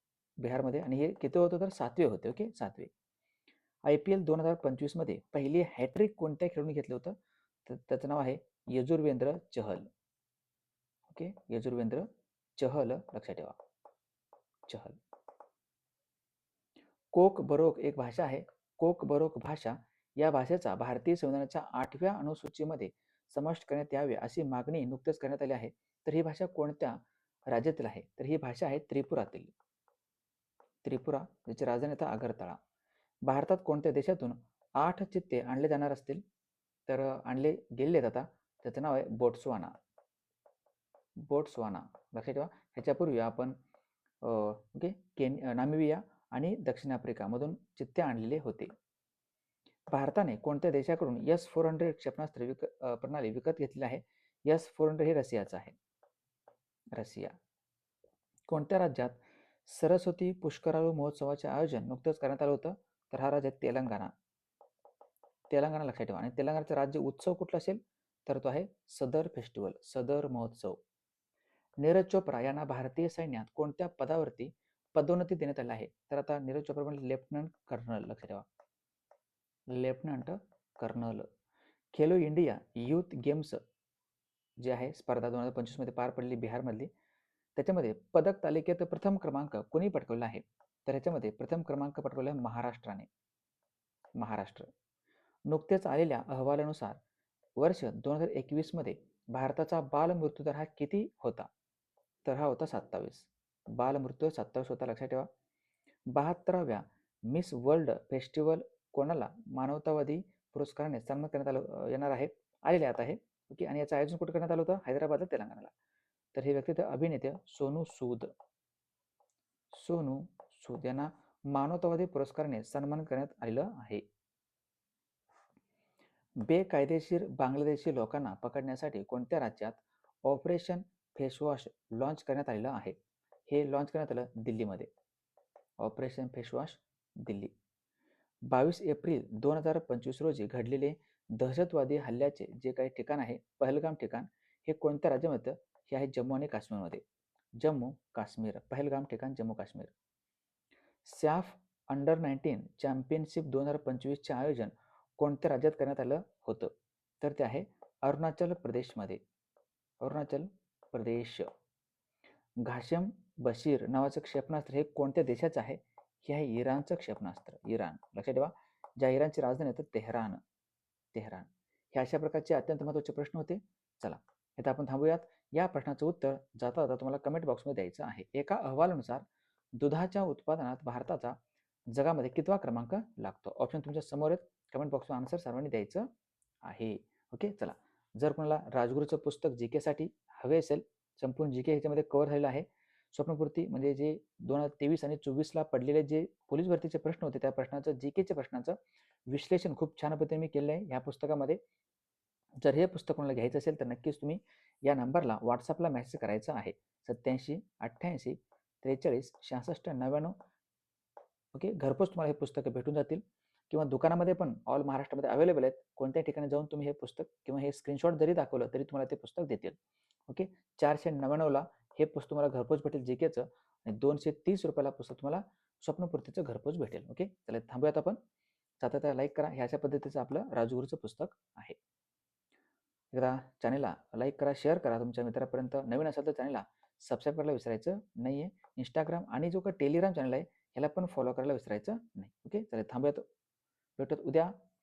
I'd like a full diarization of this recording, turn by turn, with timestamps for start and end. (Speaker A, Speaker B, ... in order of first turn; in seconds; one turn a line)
Speaker A: 0.4-2.9
Speaker A: 3.8-9.9
Speaker A: 11.1-13.6
Speaker A: 14.7-15.0
Speaker A: 17.1-29.5
Speaker A: 30.8-32.6
Speaker A: 33.2-36.2
Speaker A: 36.9-39.7
Speaker A: 41.2-43.6
Speaker A: 44.2-48.7
Speaker A: 49.9-55.7
Speaker A: 57.0-57.3
Speaker A: 58.5-64.1
Speaker A: 65.5-70.8
Speaker A: 71.8-78.5
Speaker A: 79.7-81.3
Speaker A: 81.9-83.6
Speaker A: 84.6-86.9
Speaker A: 87.5-93.1
Speaker A: 94.2-94.7
Speaker A: 95.5-97.0
Speaker A: 97.6-101.5
Speaker A: 102.2-105.3
Speaker A: 106.1-115.7
Speaker A: 116.3-118.3
Speaker A: 119.7-124.0
Speaker A: 126.4-132.9
Speaker A: 133.5-134.9
Speaker A: 135.8-137.5
Speaker A: 138.5-147.0
Speaker A: 147.6-149.9
Speaker A: 151.0-159.2
Speaker A: 160.0-161.5
Speaker A: 162.6-170.4
Speaker A: 171.1-179.2
Speaker A: 179.8-181.4
Speaker A: 181.9-186.1
Speaker A: 186.6-198.8
Speaker A: 199.3-201.6
Speaker A: 202.6-210.4
Speaker A: 211.5-228.2
Speaker A: 228.8-231.8
Speaker A: 233.1-243.2
Speaker A: 244.0-244.5